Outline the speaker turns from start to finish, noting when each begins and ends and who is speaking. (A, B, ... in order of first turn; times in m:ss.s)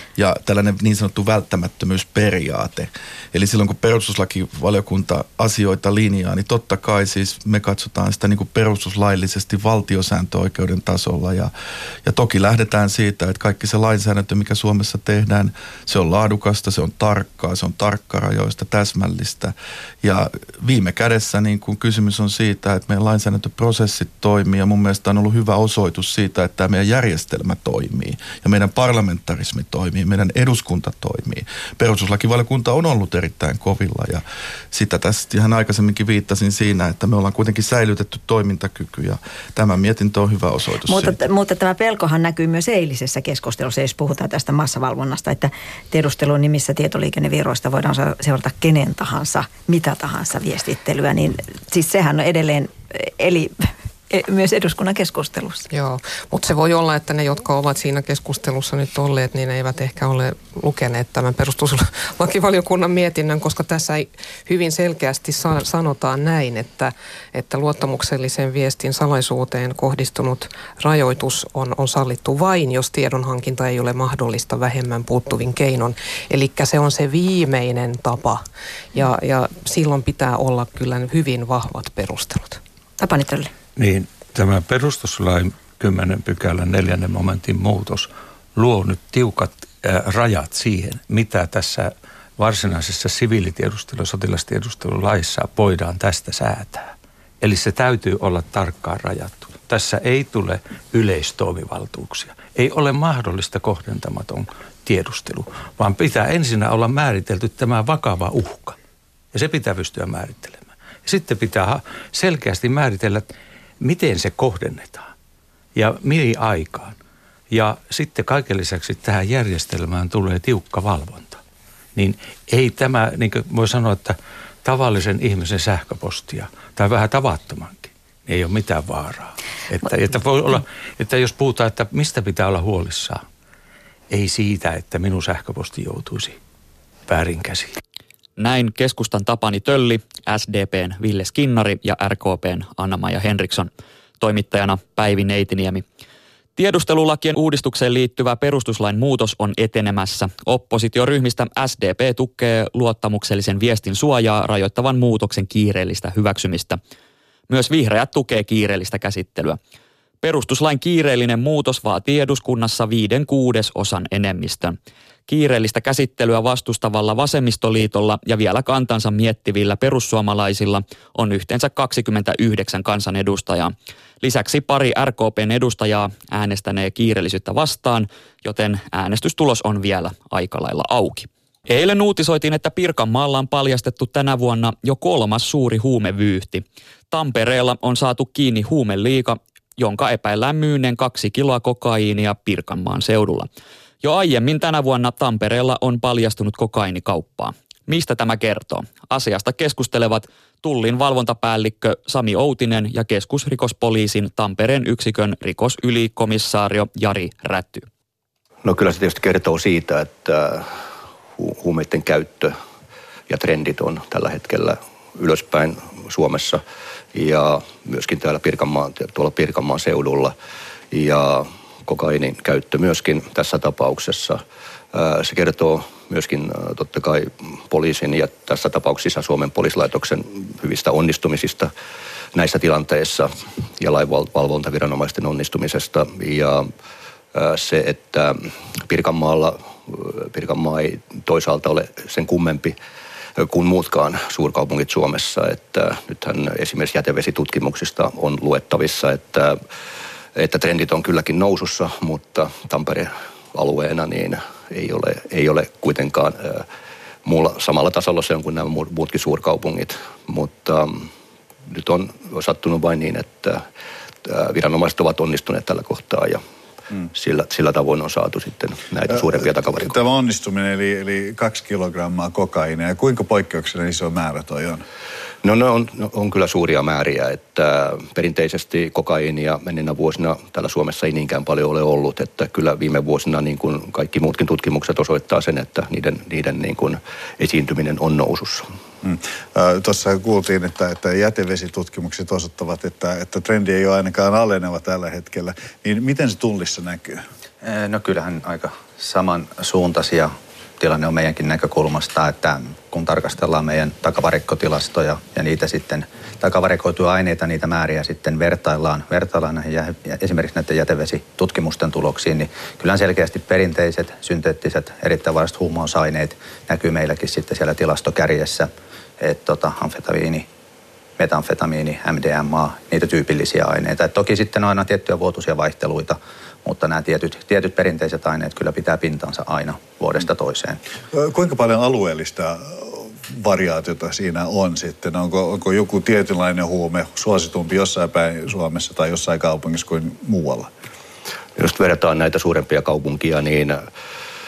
0:00.2-0:11.5 A
0:12.0-0:41.2 A
0:40.9-0:55.7 B
0:55.7-1:18.4 C
1:18.9-1:22.6 C
1:23.0-1:23.5 B
1:23.8-1:48.8 D
1:49.3-1:53.3 D
1:53.8-1:55.1 D
1:55.8-1:57.0 D
1:57.5-2:01.4 D
2:02.0-2:13.2 D
2:14.1-2:16.4 D
2:17.1-2:17.8 D
2:18.4-2:25.8 E
2:26.6-2:36.8 E
2:37.5-2:39.6 E
2:40.2-2:44.8 E
2:45.3-3:13.5 E
3:14.0-3:27.9 E
3:28.6-3:30.8 F
3:31.4-3:32.6 F
3:33.3-3:36.6 F
3:37.1-3:40.3 F
3:40.9-3:51.7 F
3:52.4-3:56.7 F
3:57.3-4:02.8 F
4:03.4-4:09.6 F
4:10.4-4:16.7 F
4:17.2-4:21.1 F
4:21.7-4:23.7 F
4:24.2-4:26.4 F
4:27.1-4:30.0 F
4:29.1-4:34.8 G
4:35.4-4:48.7 F
4:49.0-4:57.2 G
4:57.6-5:20.5 H
5:21.2-5:30.8 H
5:31.1-5:40.7 G
5:41.6-5:43.9 F